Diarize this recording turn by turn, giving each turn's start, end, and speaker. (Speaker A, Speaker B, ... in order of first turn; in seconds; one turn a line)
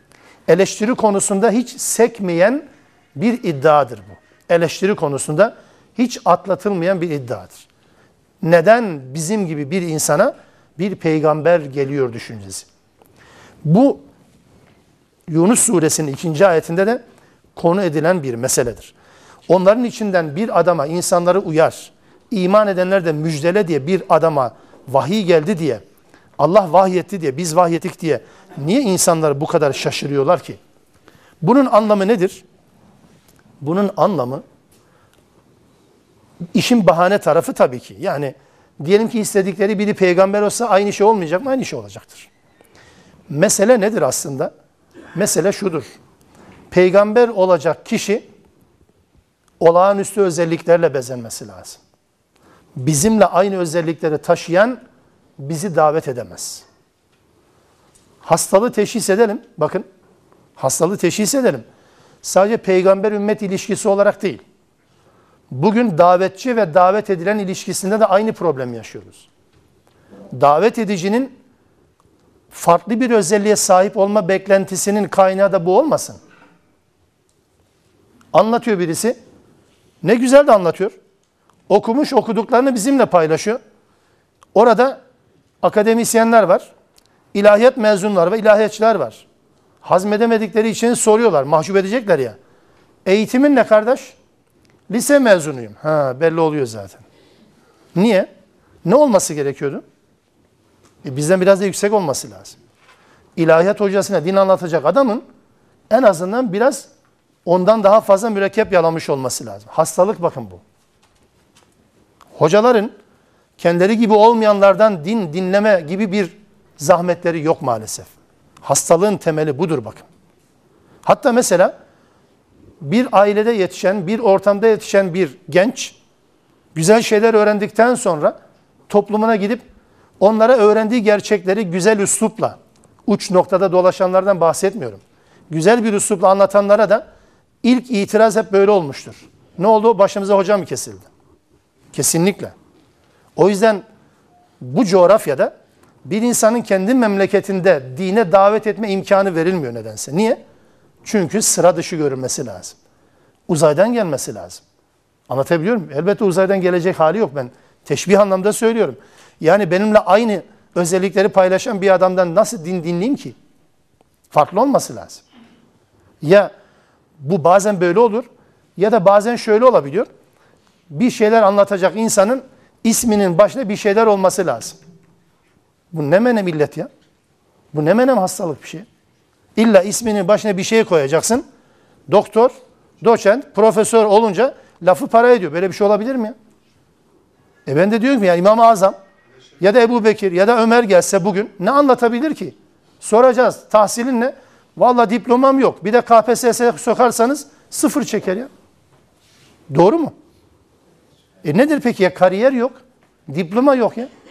Speaker A: 0.5-2.6
Speaker A: 3.2-7.7
Speaker A: 8.4-12.7
Speaker A: 13.7-14.0
Speaker A: 15.3-17.0
Speaker A: 17.6-18.9
Speaker A: 19.5-25.8
Speaker A: 26.4-30.6
Speaker A: 31.4-32.4
Speaker A: 33.6-34.4
Speaker A: 36.5-42.3
Speaker A: 43.3-44.5
Speaker A: 45.1-46.0
Speaker A: 46.7-48.2
Speaker A: 49.6-51.8
Speaker A: 52.8-54.8
Speaker A: 55.4-56.6
Speaker A: 58.2-59.9
Speaker A: 60.6-61.6
Speaker A: 62.2-64.4
Speaker A: 65.5-69.3
Speaker A: 70.3-71.3
Speaker A: 72.5-76.2
Speaker A: 78.3-79.2
Speaker A: 80.0-80.9
Speaker A: 81.7-83.6
Speaker A: 84.5-85.0
Speaker A: 85.6-86.7
Speaker A: 87.3-89.2
Speaker A: 89.8-92.4
Speaker A: 93.1-94.2
Speaker A: 94.9-97.0
Speaker A: 98.0-98.3
Speaker A: 98.8-99.8
Speaker A: 101.0-102.6
Speaker A: 103.4-105.2
Speaker A: 105.9-106.9
Speaker A: 107.5-110.6
Speaker A: 112.4-112.9
Speaker A: 113.6-118.1
Speaker A: 118.6-120.1
Speaker A: 121.0-121.7
Speaker A: 122.8-126.0
Speaker A: 126.8-128.3
Speaker A: 128.9-129.6
Speaker A: 130.2-137.0
Speaker A: 137.6-141.1
Speaker A: 141.9-142.5
Speaker A: 143.4-143.8
Speaker A: 144.6-145.5
Speaker A: 146.1-150.4
Speaker A: 151.0-152.8
Speaker A: 153.5-154.6
Speaker A: 155.3-163.3
Speaker A: 164.3-165.2
Speaker A: 166.2-166.5
Speaker A: 167.2-170.1
Speaker A: 170.9-174.8
Speaker A: 175.9-176.9
Speaker A: 177.7-178.9
Speaker A: 179.6-181.4
Speaker A: 182.1-186.4
Speaker A: 187.7-189.0
Speaker A: 189.6-198.5
Speaker A: 199.7-200.1
Speaker A: 201.4-202.8
Speaker A: 203.3-204.1